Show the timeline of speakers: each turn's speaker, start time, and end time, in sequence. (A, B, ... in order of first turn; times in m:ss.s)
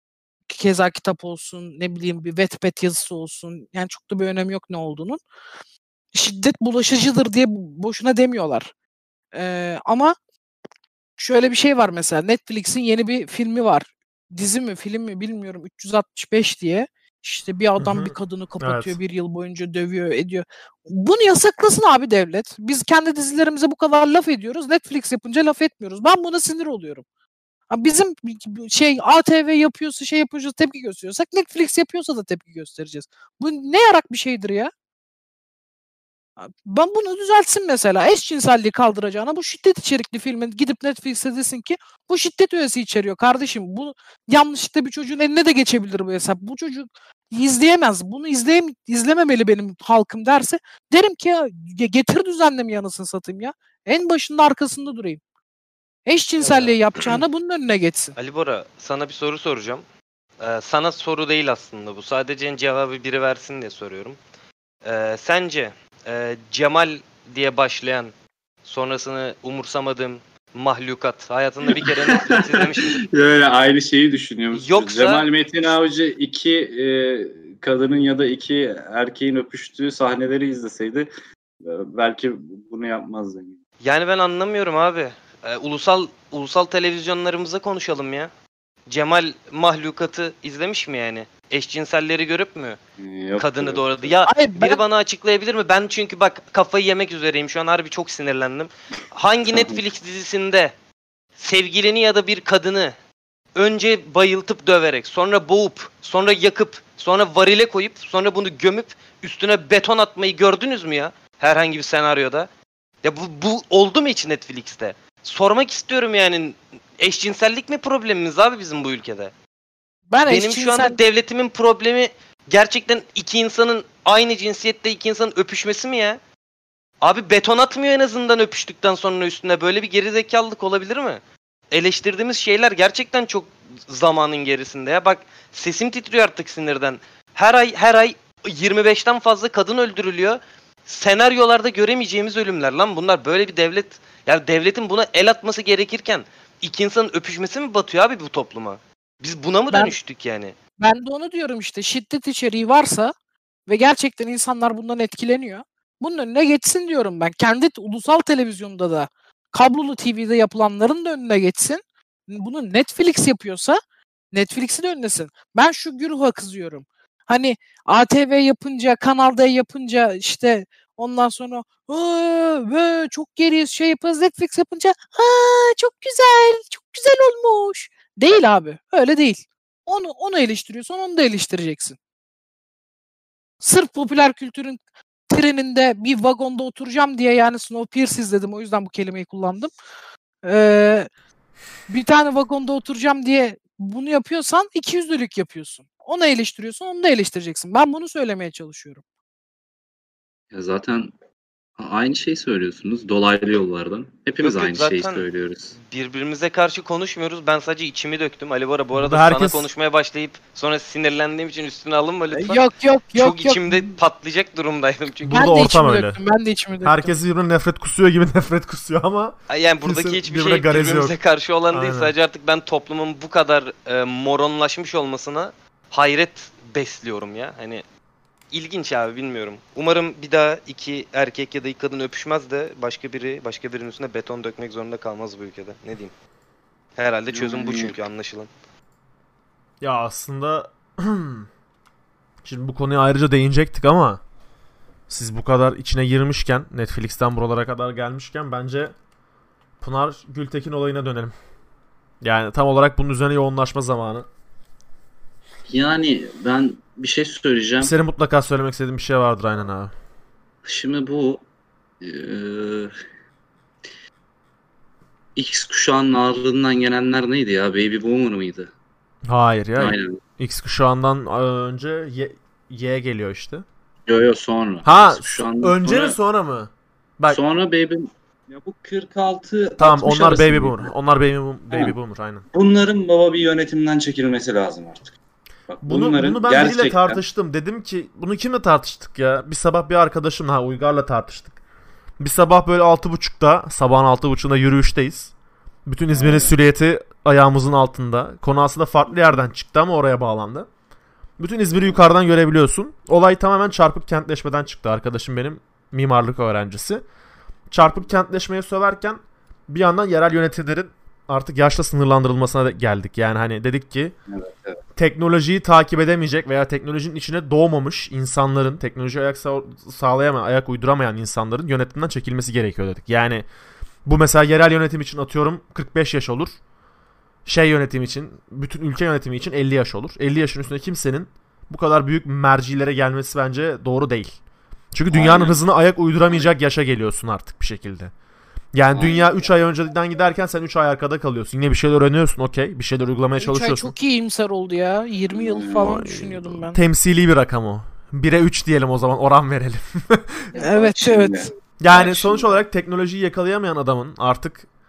0:00.5-0:05.2 A
0:06.1-0:08.7 A
0:09.3-0:10.1 A
0:11.2-0:27.0 A
0:17.8-0:19.0 B
0:27.7-0:34.7 A
0:36.4-0:55.2 A
0:56.0-0:58.1 A
0:56.5-0:56.7 C
0:58.2-0:59.8 C
1:00.4-1:04.2 C
1:04.8-1:08.1 C
1:08.6-1:13.0 C
1:11.8-1:21.1 D
1:14.5-1:15.8 C
1:21.6-1:23.6 D
1:23.8-1:28.3 C
1:28.9-1:32.8 C
1:33.0-1:34.1 D
1:33.4-1:40.7 C
1:34.2-1:34.8 A
1:39.5-1:39.8 D
1:41.4-1:42.9 C
1:43.5-1:52.5 C
1:53.0-1:59.3 C
2:00.1-2:01.0 A
2:00.3-2:06.2 C
2:07.0-2:11.2 C
2:11.7-2:30.5 C
2:30.8-2:33.1 A
2:33.7-2:43.8 A
2:44.3-3:02.0 A
3:03.6-3:09.7 A
3:10.4-3:11.1 A
3:11.9-3:19.0 A
3:20.5-3:21.1 D
3:21.8-3:25.8 D
3:24.4-3:25.3 C
3:25.8-3:35.6 C
3:28.9-3:29.7 B
3:32.3-3:33.9 A
3:35.2-3:36.2 B
3:35.3-3:37.1 A
3:36.8-3:41.2 B
3:39.5-3:47.8 C
3:41.7-3:42.1 B
3:48.5-3:56.1 C
3:57.0-3:58.5 C
3:57.3-3:57.9 D
3:59.8-4:01.5 B
4:02.4-4:04.2 B
4:05.1-4:08.9 B
4:09.8-4:11.3 B
4:12.2-4:14.3 B
4:15.7-4:17.9 D
4:17.8-4:19.9 B
4:20.6-4:21.4 D
4:22.0-4:22.9 D
4:25.3-4:28.7 D
4:29.3-4:33.6 B
4:29.8-4:30.2 D
4:34.1-4:36.2 D
4:34.8-4:37.4 B
4:37.3-4:40.9 D
4:39.8-4:42.4 B
4:42.5-4:45.1 D
4:45.7-4:47.2 D
4:45.8-4:51.5 B
4:52.2-4:55.3 B
4:55.8-5:00.7 B
4:56.1-4:56.6 D
5:01.4-5:07.0 B
5:07.7-5:14.1 B
5:14.3-5:14.8 D
5:15.0-5:23.4 B
5:24.0-5:26.5 B
5:27.4-5:34.3 B
5:34.9-5:38.1 B
5:35.1-5:35.6 D
5:36.3-5:36.5 D
5:38.7-5:44.0 B
5:38.9-5:39.5 D
5:43.4-5:46.8 A
5:45.3-5:45.9 D
5:45.8-5:50.5 B
5:50.5-5:52.6 D
5:50.6-5:51.5 A
5:51.8-5:54.7 B